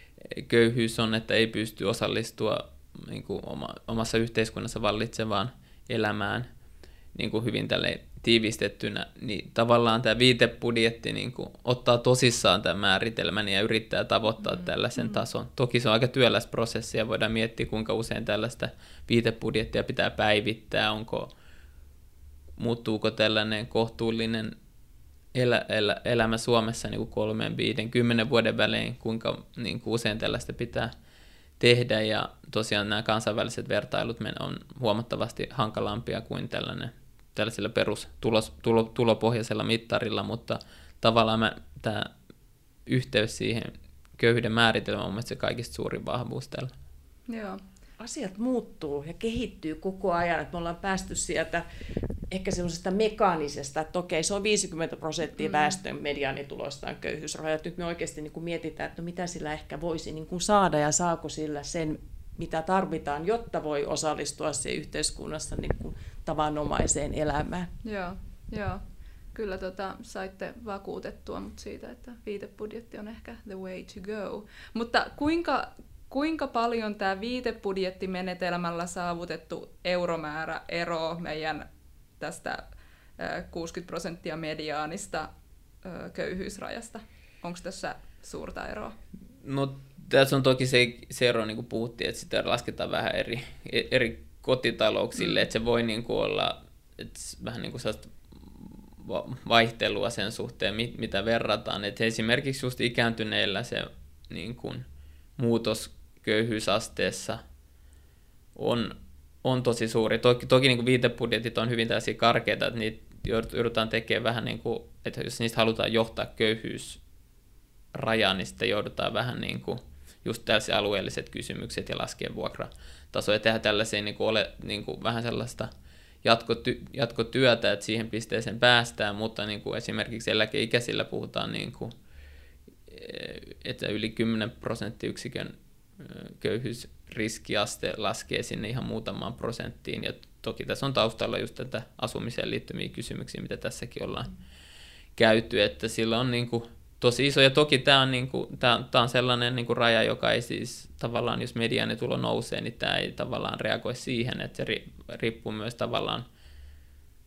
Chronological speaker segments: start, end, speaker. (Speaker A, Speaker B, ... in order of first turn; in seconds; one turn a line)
Speaker A: 0.3-6.5
Speaker A: 7.1-21.3
Speaker B: 14.6-15.2
Speaker A: 22.6-24.5
Speaker A: 25.3-30.9
Speaker A: 31.6-42.1
Speaker A: 42.9-46.7
Speaker B: 47.3-47.6
Speaker C: 48.0-51.6
Speaker C: 52.3-67.7
Speaker B: 55.4-55.8
Speaker B: 67.8-68.8
Speaker B: 69.3-81.6
Speaker B: 82.2-82.7
Speaker B: 83.2-85.3
Speaker B: 85.8-88.9
Speaker A: 89.4-104.8
Speaker B: 95.2-95.5
Speaker A: 105.4-107.4
Speaker A: 108.5-117.0
Speaker A: 117.9-125.7
Speaker A: 126.2-131.9
Speaker A: 132.9-144.3
Speaker A: 145.2-156.2